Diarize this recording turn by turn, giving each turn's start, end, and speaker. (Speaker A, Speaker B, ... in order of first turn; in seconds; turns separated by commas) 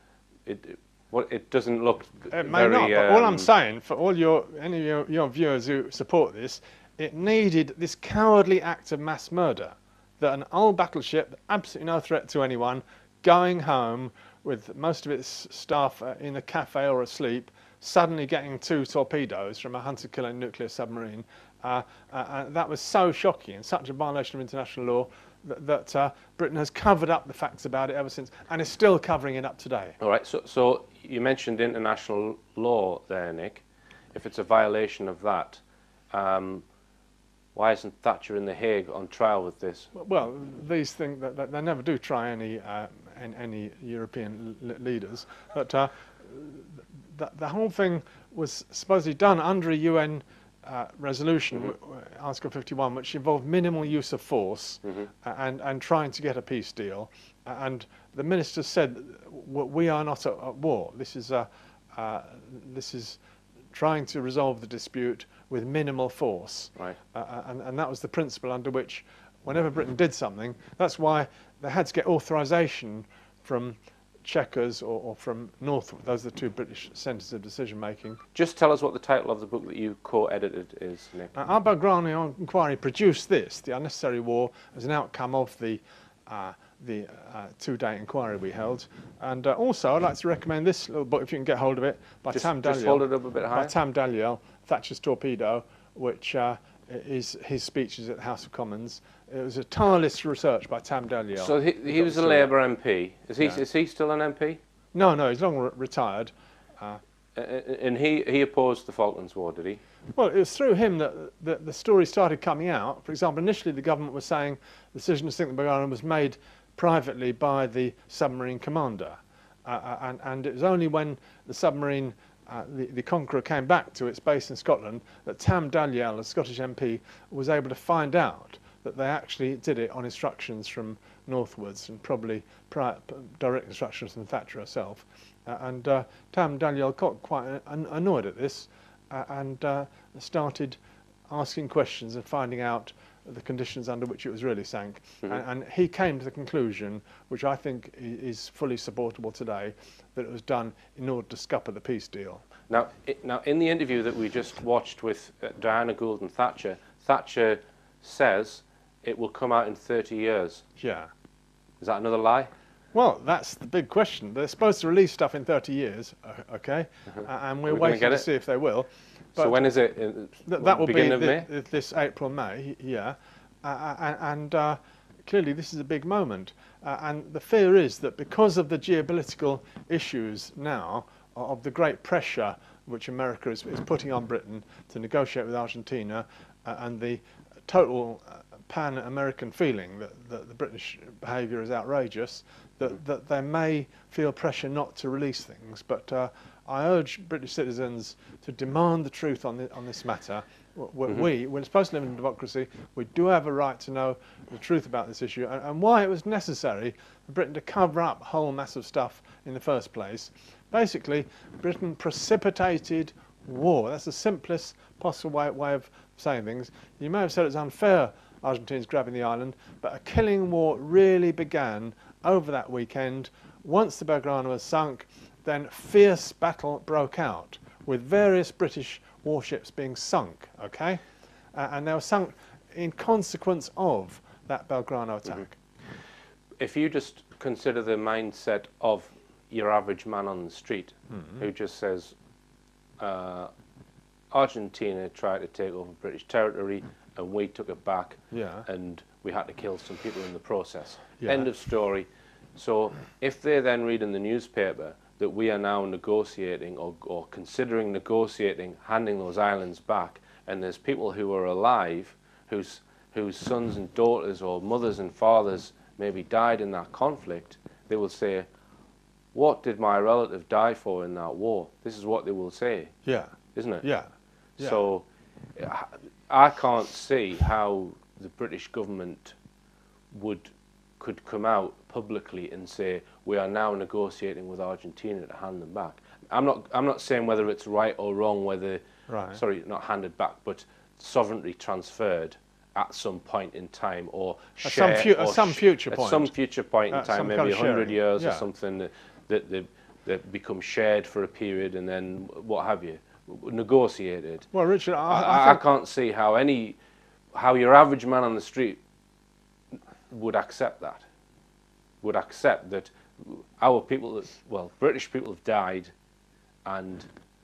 Speaker A: 0.5-3.5, Speaker B: 2.3-30.0, Speaker A: 30.0-36.6, Speaker A: 37.5-39.9, Speaker B: 39.9-63.2, Speaker A: 54.8-55.1, Speaker B: 63.7-78.2, Speaker A: 78.3-81.3, Speaker B: 81.3-102.5, Speaker A: 92.3-93.7, Speaker A: 101.3-104.6, Speaker B: 104.9-107.0, Speaker A: 107.3-109.8, Speaker B: 110.1-152.4, Speaker A: 152.7-160.6, Speaker B: 160.8-161.1, Speaker A: 161.8-162.5, Speaker B: 162.9-169.6, Speaker A: 167.1-168.3, Speaker A: 169.3-171.5, Speaker B: 170.4-231.0, Speaker B: 231.5-235.6, Speaker A: 236.6-242.2, Speaker B: 241.1-241.4, Speaker A: 243.0-243.5, Speaker A: 244.3-268.5, Speaker B: 248.3-248.7, Speaker B: 251.2-251.5, Speaker A: 269.3-272.9, Speaker B: 273.0-274.8, Speaker A: 273.5-273.9, Speaker A: 274.6-279.4, Speaker A: 280.1-288.8, Speaker B: 289.1-289.4, Speaker A: 289.3-304.5, Speaker B: 294.6-296.3, Speaker B: 296.9-298.5, Speaker B: 304.5-305.6, Speaker A: 305.1-306.8, Speaker A: 307.3-308.8, Speaker A: 310.1-311.0, Speaker A: 312.0-315.9, Speaker A: 316.6-317.1